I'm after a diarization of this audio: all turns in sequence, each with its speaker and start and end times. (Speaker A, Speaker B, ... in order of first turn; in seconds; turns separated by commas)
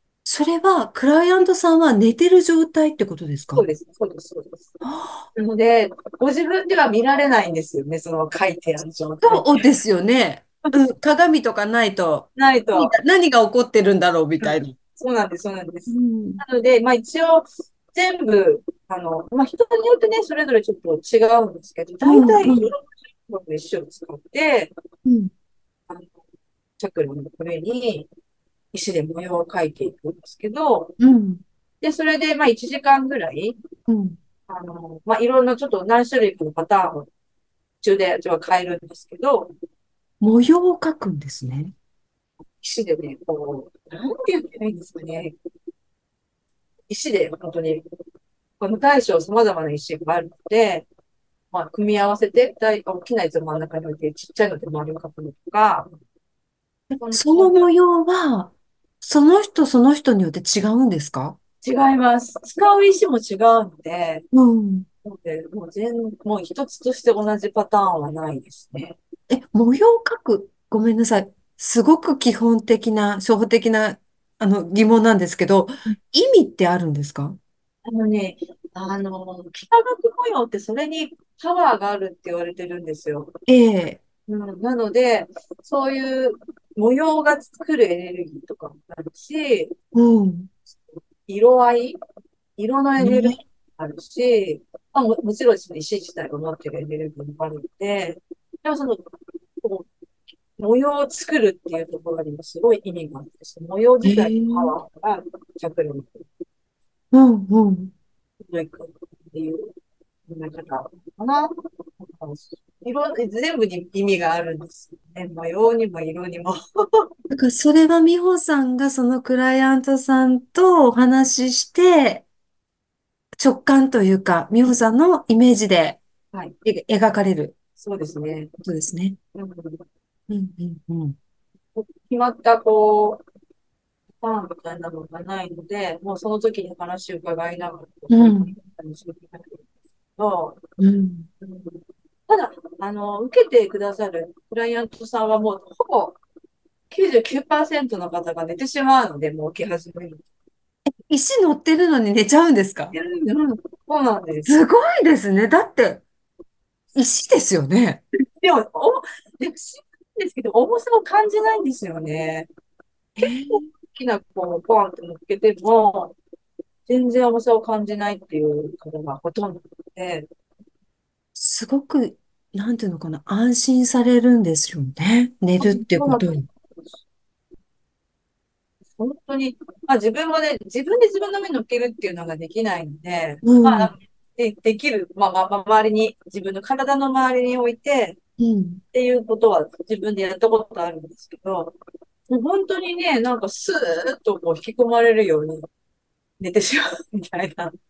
Speaker A: 0.2-3.6, Speaker B: 3.5-4.7, Speaker A: 4.8-5.3, Speaker B: 5.3-9.7, Speaker A: 9.2-14.8, Speaker B: 12.3-12.9, Speaker B: 14.4-24.7, Speaker A: 15.9-16.4, Speaker A: 22.0-22.7, Speaker A: 25.1-25.3, Speaker B: 25.9-26.1, Speaker B: 26.8-28.1, Speaker B: 28.7-30.9, Speaker A: 31.0-31.4, Speaker B: 31.8-33.6, Speaker A: 33.9-34.2, Speaker B: 34.5-37.1, Speaker B: 37.8-39.5, Speaker A: 40.2-41.7, Speaker B: 42.6-45.3, Speaker B: 46.9-47.8, Speaker B: 48.6-50.9, Speaker B: 51.5-55.9, Speaker A: 56.9-61.4, Speaker B: 57.0-57.5, Speaker B: 61.6-64.2, Speaker A: 64.3-64.9, Speaker B: 65.0-69.0, Speaker A: 69.3-77.4, Speaker B: 77.8-83.3, Speaker A: 83.5-84.0, Speaker B: 84.3-89.7, Speaker A: 89.9-90.5, Speaker B: 90.9-92.0, Speaker B: 92.6-99.0, Speaker A: 93.0-93.4, Speaker B: 99.6-99.9, Speaker B: 100.6-106.2, Speaker A: 104.0-104.7, Speaker A: 107.1-107.9, Speaker B: 108.4-109.7, Speaker B: 110.3-117.0, Speaker A: 117.3-122.2, Speaker A: 123.4-126.0, Speaker A: 126.6-127.5, Speaker B: 127.8-128.5, Speaker A: 128.6-129.2, Speaker B: 129.3-129.8, Speaker A: 130.3-131.2, Speaker B: 131.7-133.2, Speaker B: 134.2-139.6, Speaker A: 138.1-138.5, Speaker B: 140.2-140.6, Speaker A: 140.8-141.3, Speaker B: 141.4-146.2, Speaker B: 146.9-150.2, Speaker A: 151.1-152.9, Speaker B: 152.9-154.6, Speaker A: 154.5-156.0, Speaker A: 156.9-158.0, Speaker B: 158.4-162.5, Speaker A: 163.2-163.7, Speaker B: 163.2-166.1, Speaker B: 166.9-170.3, Speaker A: 171.3-176.4, Speaker B: 175.6-176.5, Speaker B: 178.9-188.2, Speaker A: 183.4-183.9, Speaker A: 188.4-188.8, Speaker B: 188.9-191.7, Speaker B: 192.3-195.6, Speaker B: 196.4-197.7